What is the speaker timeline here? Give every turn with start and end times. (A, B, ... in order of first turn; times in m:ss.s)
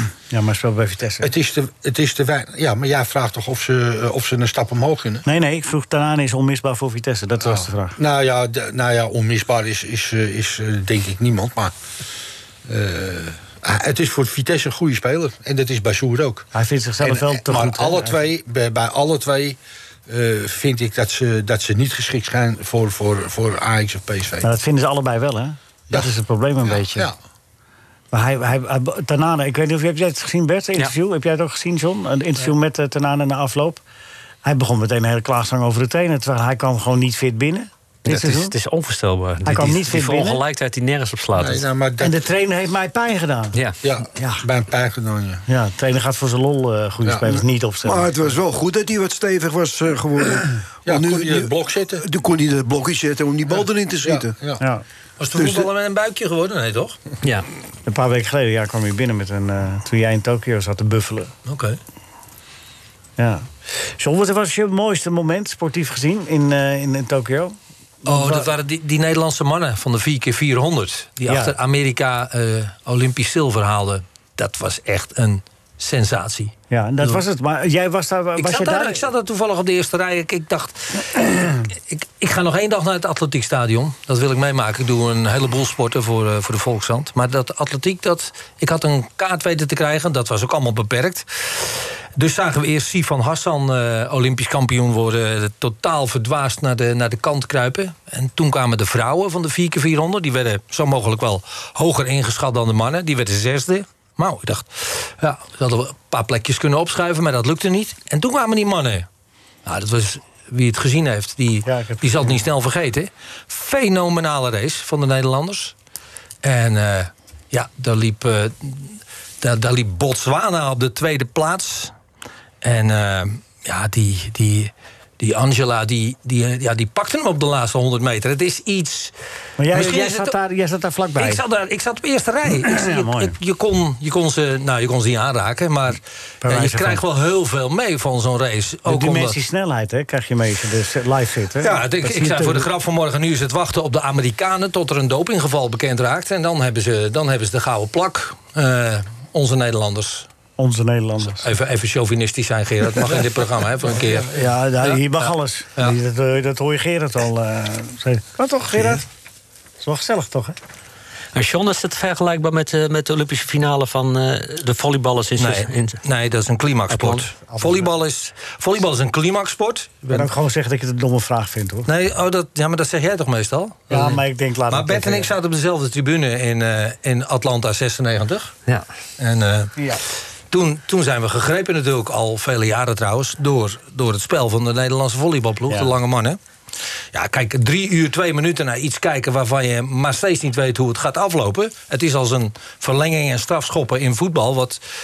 0:00.3-0:01.3 A
0:01.2-0:05.2 B
0:05.3-0:08.0 A
0:07.4-0:11.7 B
0:12.7-0:16.5 B
0:16.5-0:18.2 A
0:17.0-0:24.5 B
0:24.4-0:27.1 A
0:26.6-0:27.2 B
0:28.1-0:33.8 A
0:34.4-0:38.5 A
0:38.0-0:41.7 C
0:39.5-0:40.4 A
0:41.4-0:42.2 B
0:42.0-0:43.6 A
0:43.8-0:45.4 B
0:44.2-0:44.4 A
0:45.5-0:48.1 A
0:47.0-0:47.4 B
0:47.8-0:54.4 D
0:50.9-0:52.0 B
0:53.5-0:54.6 B
0:54.6-0:54.8 A
0:55.2-0:57.0 E
0:55.4-0:55.7 D
0:57.9-1:01.3 A
1:01.5-1:01.8 E
1:03.2-1:08.5 A
1:08.1-1:17.2 E
1:11.3-1:11.6 A
1:16.7-1:19.1 A
1:18.4-1:49.1 E
1:49.6-1:55.8 E
1:51.6-1:52.5 A
1:56.4-2:01.9 E
2:02.6-2:09.1 E
2:09.6-2:11.4 A
2:09.7-2:10.4 E
2:11.2-2:19.4 E
2:12.6-2:13.4 A
2:16.4-2:17.0 A
2:18.9-2:22.7 A
2:21.6-2:30.3 E
2:30.6-2:31.5 A
2:31.3-2:36.0 E
2:33.9-2:39.1 A
2:39.8-2:40.6 A
2:41.3-2:46.0 C
2:45.4-2:50.3 E
2:46.9-2:47.2 C
2:47.5-2:47.9 A
2:50.1-2:51.9 A
2:51.9-2:54.2 E
2:53.9-2:55.3 A
2:54.7-2:58.5 E
2:59.2-2:59.7 E
3:00.5-3:06.4 E
3:05.7-3:06.0 A
3:07.1-3:14.8 E